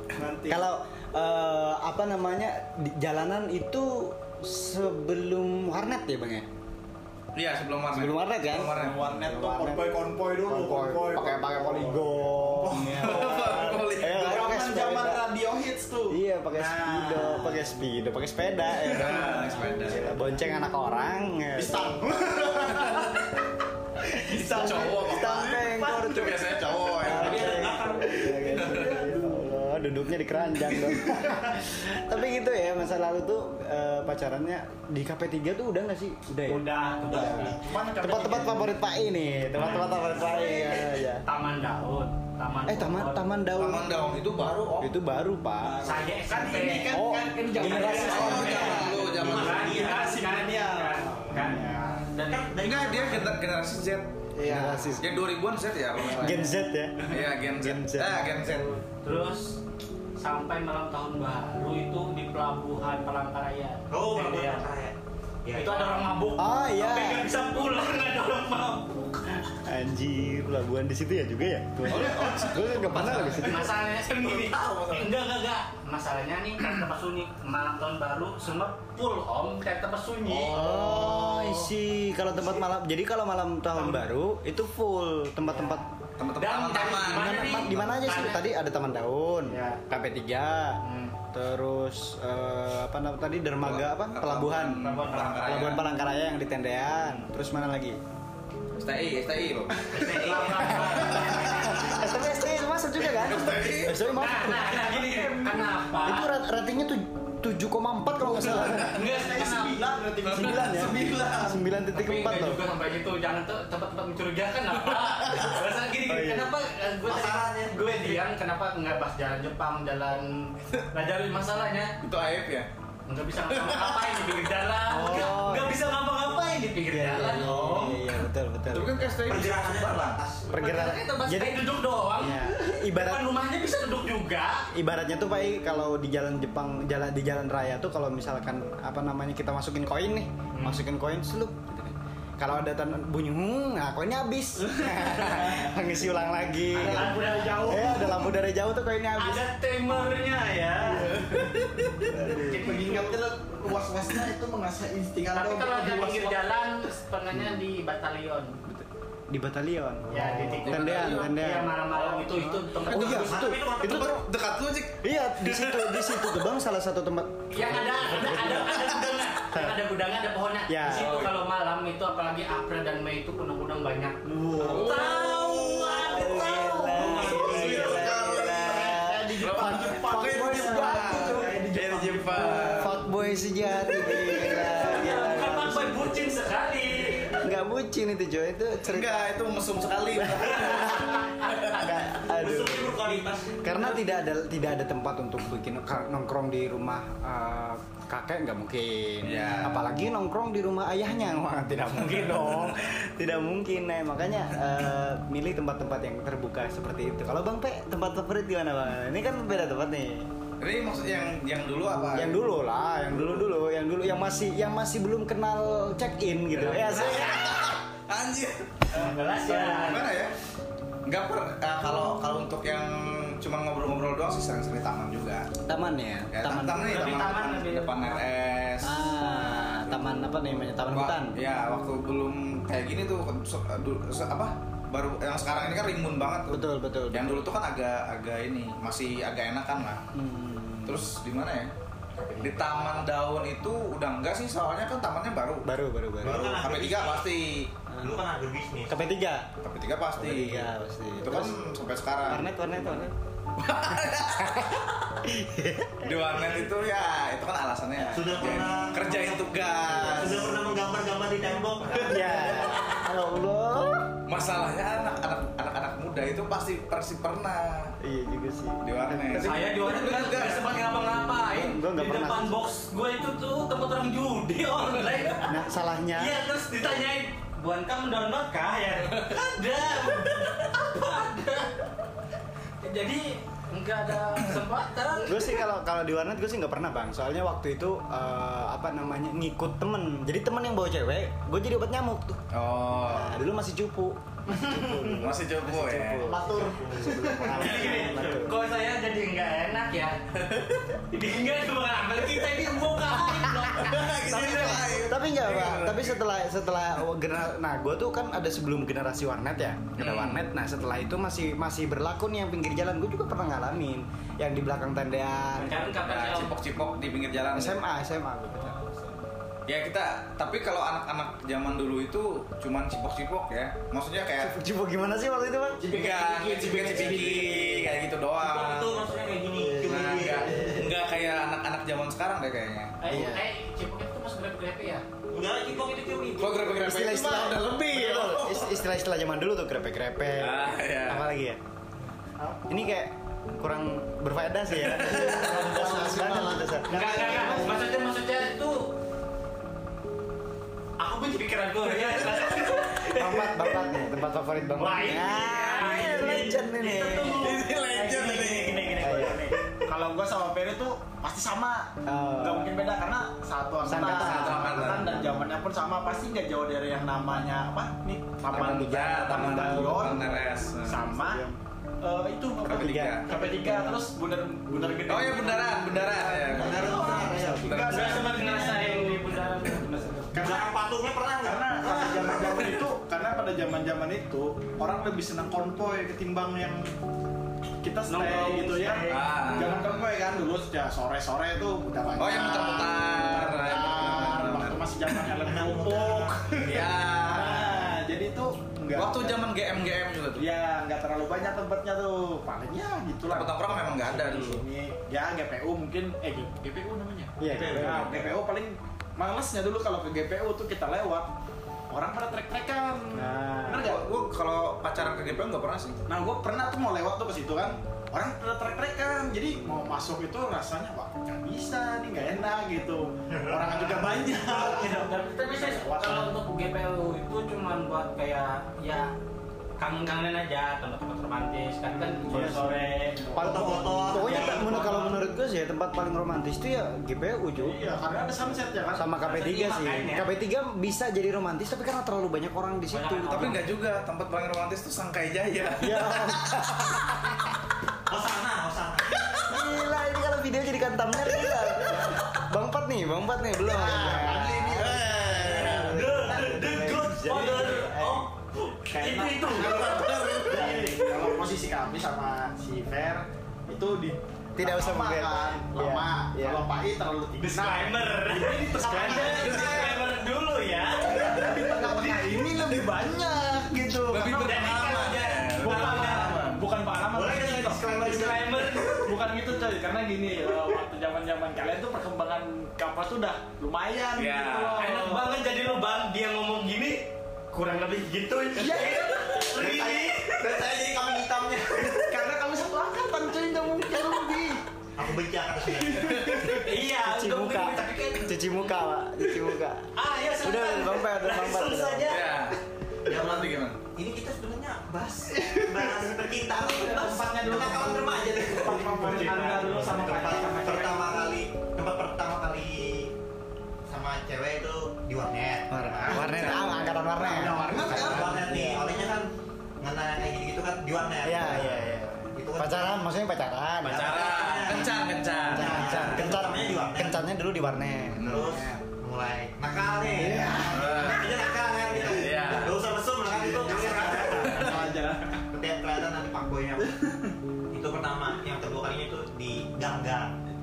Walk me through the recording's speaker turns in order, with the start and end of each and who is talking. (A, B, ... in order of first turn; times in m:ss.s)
0:00.1-0:00.6 A
0:00.5-0:06.5 B
0:07.3-0:09.1 C
0:07.9-0:15.3 B
0:08.6-0:17.7 A
0:12.7-0:14.4 C
0:16.1-0:22.3 B
0:18.8-0:20.0 C
0:21.6-0:23.2 A
0:24.1-0:36.6 B
0:24.2-0:27.6 C
0:24.3-0:24.9 A
0:27.0-0:28.2 D
0:27.1-0:29.3 A
0:28.5-0:29.0 C
0:36.5-0:37.6 E
0:37.1-0:38.7 A
0:37.2-0:37.7 D
0:38.0-0:41.2 B
0:39.6-0:43.2 E
0:39.6-0:40.0 A
0:42.7-0:44.0 B
0:43.6-0:44.9 C
0:44.7-0:45.8 B
0:45.6-0:51.9 A
0:45.8-0:52.5 E
0:46.9-0:48.9 B
0:47.7-0:49.8 C
0:48.3-0:50.1 D
0:52.3-0:53.3 D
0:52.6-0:54.1 C
0:54.4-0:55.0 A
0:54.4-0:55.2 B
0:55.0-0:56.4 C
0:56.1-0:58.7 B
0:57.1-0:58.7 C
0:58.9-0:59.6 E
1:00.2-1:04.7 E
1:03.9-1:06.1 D
1:05.5-1:09.2 E
1:06.4-1:07.3 B
1:09.5-1:13.7 B
1:11.9-1:15.1 C
1:13.1-1:20.7 E
1:20.2-1:21.7 C
1:20.5-1:25.9 B
1:23.8-1:24.0 E
1:25.5-1:25.8 E
1:26.2-1:28.0 C
1:26.4-1:28.4 E
1:27.1-1:30.8 B
1:29.5-1:29.8 E
1:30.8-1:31.2 E
1:31.3-1:38.0 B
1:33.6-1:35.9 C
1:34.8-1:35.6 E
1:38.8-1:42.0 C
1:39.9-1:42.0 E
1:40.8-1:45.2 B
1:43.0-1:44.0 C
1:44.1-1:46.3 E
1:45.0-1:45.4 A
1:46.0-1:49.0 B
1:48.5-1:51.4 A
1:48.8-1:49.8 E
1:50.2-1:51.6 C
1:50.3-1:52.7 B
1:51.9-2:01.9 E
1:54.8-1:55.6 C
1:56.1-1:56.5 B
1:57.0-1:58.2 D
2:02.0-2:02.7 C
2:03.1-2:08.0 E
2:03.5-2:04.2 C
2:04.9-2:05.8 B
2:06.9-2:09.1 B
2:08.7-2:10.2 C
2:09.2-2:10.5 D
2:10.5-2:14.7 E
2:10.5-2:11.6 B
2:12.2-2:13.3 B
2:14.7-2:29.5 B
2:20.5-2:20.8 E
2:24.9-2:25.7 A
2:26.7-2:28.2 A
2:26.8-2:28.0 E
2:29.2-2:31.5 E
2:32.1-2:32.4 B
2:32.1-2:36.4 A
2:32.2-2:33.2 E
2:35.3-2:38.6 E
2:37.3-2:37.6 B
2:38.7-2:41.8 B
2:40.1-2:43.5 E
2:40.6-2:41.3 C
2:42.0-2:42.2 C
2:42.3-2:44.2 B
2:42.9-2:43.2 C
2:43.0-2:44.1 D
2:43.8-2:46.2 C
2:45.0-2:49.8 B
2:47.5-2:57.6 E
2:50.7-2:51.2 B
2:51.0-2:51.3 C
2:54.2-2:55.2 A
2:54.6-3:01.6 B
2:54.7-2:55.2 C
2:56.9-3:02.9 A
2:57.2-3:02.9 C
3:02.4-3:06.2 B
3:04.2-3:07.4 E
3:07.4-3:09.3 B
3:08.8-3:11.9 C
3:10.2-3:30.3 B
3:12.3-3:14.0 D
3:19.2-3:19.8 C
3:30.6-3:32.4 C
3:32.1-3:37.4 B
3:36.6-3:40.3 C
3:36.9-3:37.6 E
3:38.9-3:40.2 E
3:41.1-3:45.5 C
3:45.7-3:47.3 B
3:46.3-3:49.0 C
3:46.8-3:48.2 E
3:48.8-3:51.3 B
3:50.9-4:00.0 C
3:56.5-3:57.5 B
4:00.1-4:01.0 B
4:00.8-4:01.7 C
4:02.4-4:05.7 C
4:05.6-4:06.6 B
4:06.2-4:07.4 D
4:06.3-4:07.7 C
4:08.0-4:09.1 D
4:08.9-4:09.5 B
4:09.6-4:10.7 C
4:10.2-4:11.6 B
4:11.2-4:12.5 C
4:12.3-4:13.1 B
4:13.6-4:14.8 C
4:14.4-4:16.1 B
4:16.0-4:20.6 C
4:18.0-4:22.8 D
4:22.0-4:24.1 B
4:24.3-4:27.9 C
4:28.0-4:29.7 B
4:28.8-4:30.8 C
4:29.4-4:41.9 E
4:31.5-4:32.6 B
4:35.5-4:36.4 B
4:42.8-4:45.6 E
4:45.2-4:52.4 B
4:52.5-4:53.4 C
4:53.0-4:58.6 B
4:54.5-4:55.1 E
4:55.2-4:56.3 C
4:56.2-4:58.2 D
4:57.4-5:05.1 E
5:03.7-5:05.9 C
5:04.9-5:15.9 B
5:05.5-5:05.9 A
5:10.0-5:10.4 C
5:15.6-5:16.6 E
5:16.0-5:17.8 C
5:17.6-5:18.8 B
5:19.7-5:24.5 C
5:24.4-5:25.8 B
5:25.8-5:27.8 A
5:25.9-5:29.0 C
5:28.4-5:30.9 D
5:29.7-5:33.3 C
5:33.0-5:35.0 E
5:33.1-5:33.4 B
5:35.3-5:36.6 D
5:36.4-5:38.8 C
5:36.8-5:41.6 B
5:40.4-5:41.2 C
5:42.4-5:42.8 D
5:42.7-5:47.8 B
5:44.8-5:45.9 C
5:45.6-5:46.2 A
5:46.1-5:47.6 D
5:46.9-5:48.9 E
5:46.9-5:47.6 A
5:51.0-5:53.7 E
5:51.9-5:52.6 C
5:53.1-5:57.5 B
5:54.8-5:59.2 E
5:55.5-5:56.1 C
5:57.2-5:59.0 C
5:57.9-6:11.4 A
5:59.0-5:59.5 B
6:02.0-6:02.7 B
6:03.8-6:05.5 B
6:04.0-6:05.1 C
6:08.5-6:11.6 B
6:08.5-6:11.0 C
6:12.0-6:19.3 A
6:12.7-6:13.3 C
6:12.7-6:14.0 B
6:15.1-6:18.3 C
6:16.3-6:18.3 B
6:16.6-6:17.8 D
6:17.9-6:20.2 E
6:19.6-6:20.4 B
6:20.3-6:20.7 A
6:20.3-6:22.8 D
6:21.4-6:26.9 A
6:27.8-6:39.4 A
6:28.1-6:29.3 E
6:29.0-6:30.1 C
6:32.2-6:35.2 C
6:35.4-6:36.4 D
6:36.5-6:37.8 C
6:39.0-6:40.5 C
6:40.4-6:51.3 A
6:43.3-6:44.6 C
6:47.4-6:48.3 B
6:47.5-6:48.4 C
6:51.9-6:54.0 A
6:53.1-6:54.0 B
6:53.8-6:56.0 C
6:56.1-7:06.3 A
7:03.3-7:03.8 D
7:04.5-7:09.1 E
7:09.8-7:13.2 E
7:12.2-7:15.2 A
7:12.3-7:12.7 B
7:13.4-7:14.9 D
7:13.4-7:23.7 B
7:17.6-7:19.1 A
7:19.2-7:20.3 E
7:19.7-7:20.1 A
7:22.9-7:23.7 E
7:23.3-7:27.1 C
7:25.8-7:27.5 B
7:28.1-7:29.4 D
7:29.2-7:38.3 B
7:33.6-7:36.0 A
7:34.8-7:35.8 C
7:35.5-7:40.5 E
7:35.8-7:37.7 D
7:38.9-7:50.0 A
7:40.0-7:40.6 C
7:44.6-7:46.6 B
7:47.4-7:51.7 E
7:48.9-7:50.0 D
7:49.3-7:49.9 C
7:51.1-7:54.6 A
7:54.1-7:56.6 C
7:54.2-7:56.5 E
7:55.6-8:05.3 A
7:57.1-7:59.0 D
7:58.0-7:59.1 E
8:04.2-8:04.8 C
8:04.8-8:10.4 E
8:08.6-8:09.4 A
8:09.5-8:12.2 D
8:11.9-8:14.6 A
8:15.0-8:16.4 D
8:15.8-8:16.6 A
8:16.4-8:18.4 E
8:16.7-8:22.2 B
8:20.0-8:22.3 E
8:22.1-8:23.8 C
8:23.1-8:33.1 D
8:26.5-8:31.3 A
8:29.2-8:29.8 E
8:33.9-8:36.8 D
8:35.7-8:38.8 B
8:36.1-8:38.7 A
8:37.6-8:38.5 C
8:37.7-8:41.8 D
8:41.2-8:44.2 B
8:42.3-8:43.0 D
8:43.8-8:45.7 C
8:43.8-8:45.0 D
8:45.5-8:47.2 D
8:45.5-8:46.5 A
8:45.5-8:48.8 B
8:48.2-8:48.6 C
8:48.2-8:54.9 D
8:50.2-8:50.7 B
8:50.3-8:51.0 A
8:50.6-8:51.3 C
8:51.9-8:52.8 C
8:53.3-8:55.4 A
8:55.5-8:56.9 D
8:56.8-8:57.4 A
8:57.7-9:00.3 D